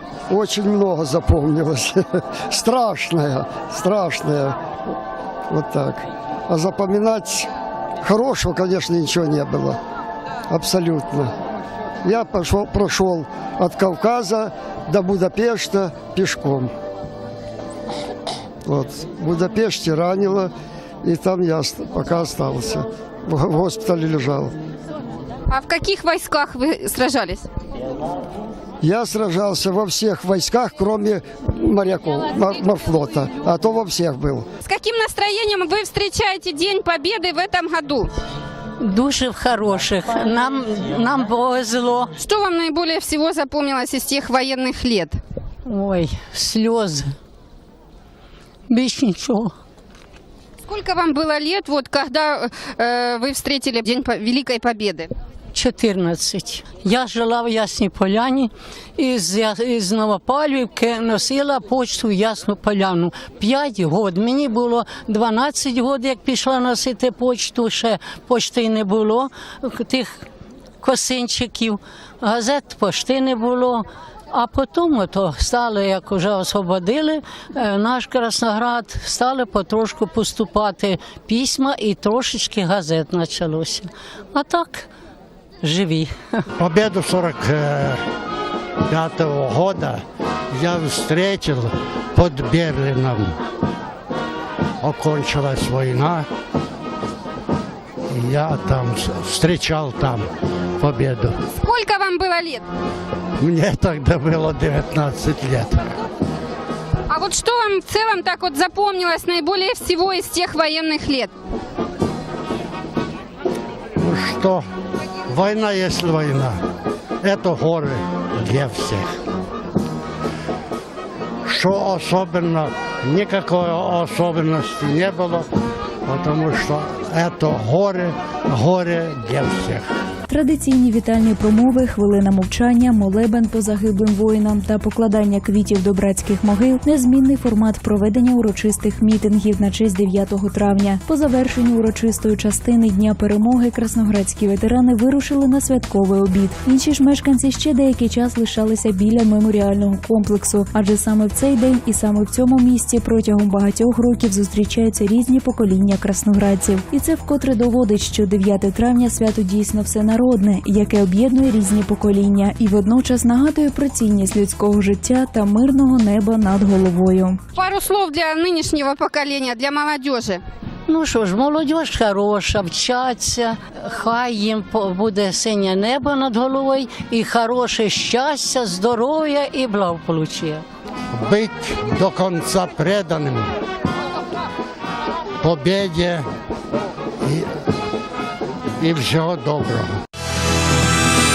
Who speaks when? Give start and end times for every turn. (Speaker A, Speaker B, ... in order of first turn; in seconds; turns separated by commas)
Speaker A: 0.3-4.6, Speaker A: 5.5-7.5, Speaker A: 8.0-9.8, Speaker A: 10.5-11.3, Speaker A: 12.0-16.7, Speaker A: 18.6-20.5, Speaker A: 21.0-24.5, Speaker B: 25.5-27.5, Speaker A: 28.8-34.5, Speaker B: 34.6-38.1, Speaker C: 38.8-42.1, Speaker B: 42.2-45.2, Speaker C: 45.7-47.2, Speaker C: 48.7-49.5, Speaker B: 50.7-55.1, Speaker C: 55.5-70.3, Speaker C: 70.8-84.9, Speaker C: 85.6-86.5, Speaker D: 86.6-88.0, Speaker D: 88.9-90.0, Speaker D: 90.5-93.3, Speaker D: 94.8-96.3, Speaker D: 98.1-100.3, Speaker D: 100.8-101.4, Speaker B: 101.6-102.7, Speaker D: 103.4-105.9, Speaker B: 107.1-111.3, Speaker D: 114.0-114.6, Speaker D: 115.3-116.6, Speaker D: 117.2-119.1, Speaker D: 121.5-125.5, Speaker D: 126.1-129.9, Speaker E: 130.3-167.4, Speaker B: 167.6-170.4, Speaker C: 170.9-180.7, Speaker D: 181.1-183.5, Speaker D: 185.4-186.3, Speaker D: 188.8-189.9